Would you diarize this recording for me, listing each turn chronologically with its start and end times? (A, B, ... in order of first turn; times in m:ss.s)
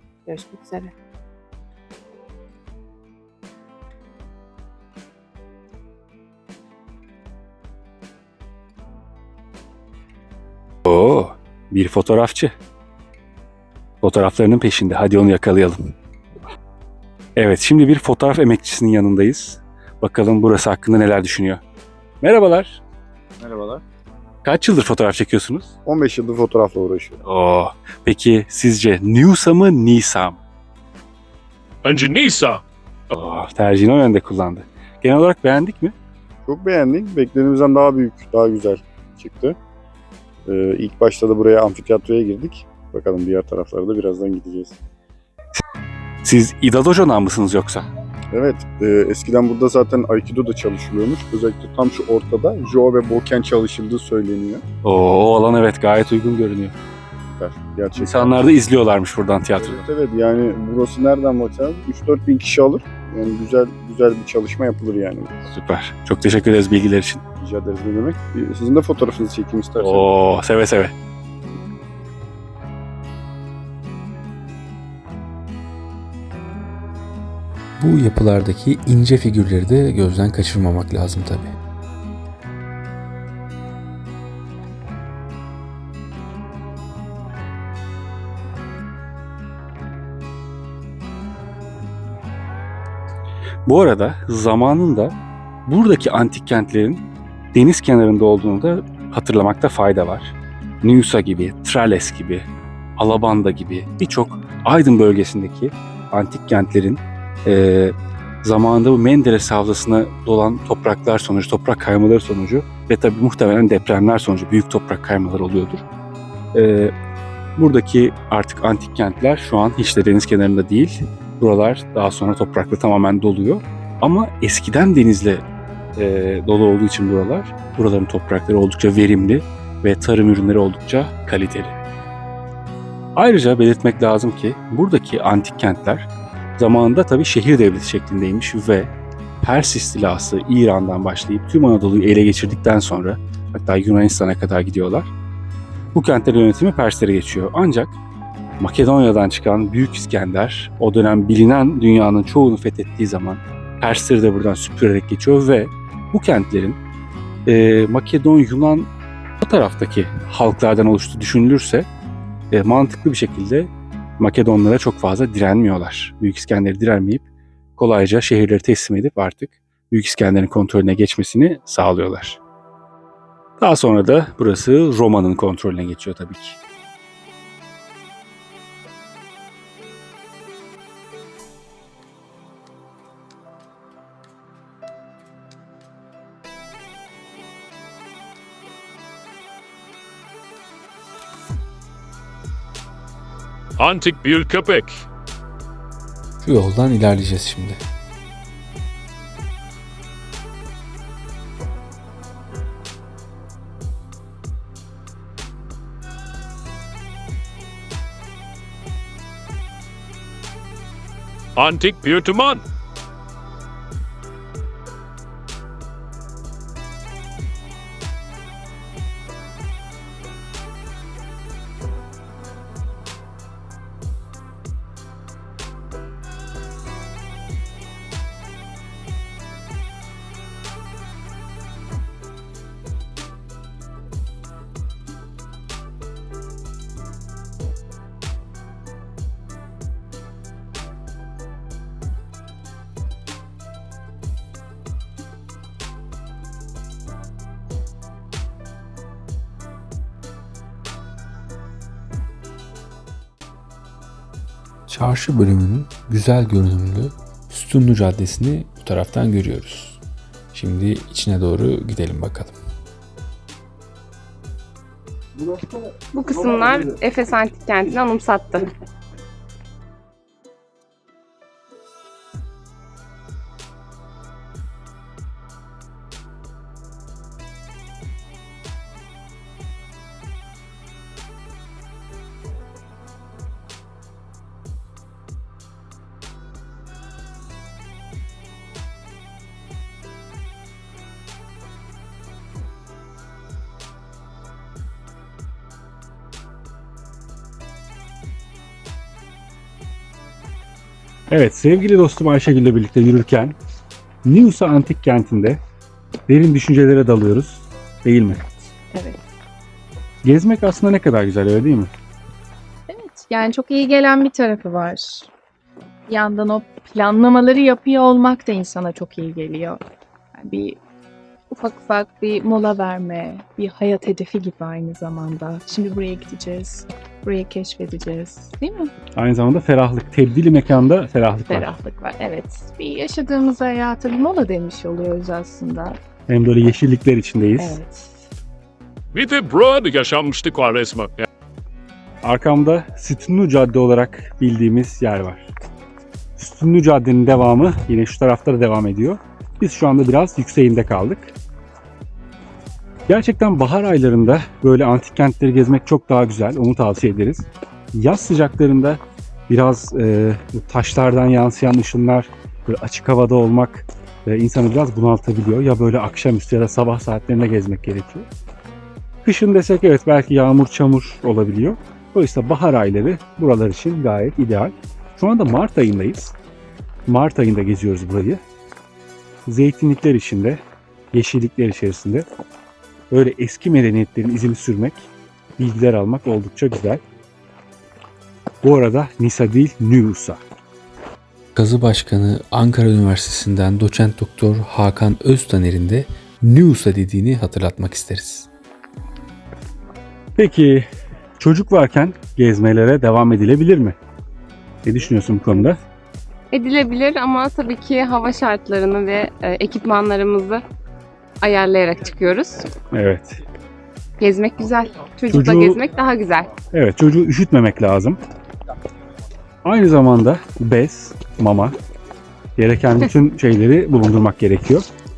0:00.3-0:00.9 A
0:10.9-0:12.5 B
0:14.0-0:15.8 B
0:17.4-0:21.6 B
0:22.2-0:22.8 B
0:23.4-0:23.8 C
0:24.4-0:25.7 B
0:25.8-0:27.2 C
0:27.2-0:30.4 B
0:31.8-0:32.6 D
0:33.1-0:36.0 B
0:36.4-0:39.6 C
0:40.5-0:44.8 C
0:46.2-0:47.9 B
0:48.3-0:54.6 C
0:54.8-0:56.8 B
0:57.3-0:58.4 C
0:58.0-0:59.9 B
0:59.6-1:05.4 C
1:05.5-1:07.2 B
1:07.4-1:10.1 C
1:09.8-1:10.9 B
1:17.8-1:21.6 E
1:33.7-1:55.9 B
1:56.5-1:56.9 B
1:57.6-2:05.4 B
2:06.0-2:11.8 B
2:13.2-2:25.1 B
2:25.9-2:28.0 B
2:28.6-2:36.8 B
2:37.5-2:41.9 B
2:42.5-2:47.2 B
2:47.8-2:52.4 B
2:53.6-2:56.6 B
3:13.8-3:15.0 D
3:16.4-3:17.8 E
3:31.6-3:32.6 D
4:14.9-4:20.0 E
4:20.5-4:22.6 E
4:26.1-4:28.7 F
5:01.3-5:03.6 B
5:04.2-5:05.6 B
5:06.3-5:08.5 B
5:08.9-5:09.2 A
5:10.2-5:11.9 B
5:12.9-5:15.3 A
5:16.1-5:19.8 A
5:20.3-5:20.8 A
5:21.5-5:28.9 A
5:29.2-5:31.7 B
5:31.5-5:36.0 A
5:36.3-5:37.8 B
5:37.6-5:38.1 A
5:39.1-5:41.3 D
5:42.2-5:45.5 B
5:46.4-5:51.4 B
5:53.1-6:08.3 B
6:09.2-6:16.4 B
6:17.1-6:18.4 B
6:19.5-6:20.6 B
6:21.1-6:22.3 B
6:23.1-6:27.0 B
6:28.6-6:30.4 B
6:31.6-6:38.5 E
6:40.4-6:40.9 B
6:41.4-6:44.0 B
6:44.8-6:45.8 B
6:46.5-6:50.6 F
6:51.4-6:52.7 F
6:52.9-6:53.4 B
6:54.2-6:56.5 F
6:55.3-6:55.8 B
6:56.7-6:58.2 B
6:59.6-7:01.8 B
7:02.6-7:04.8 B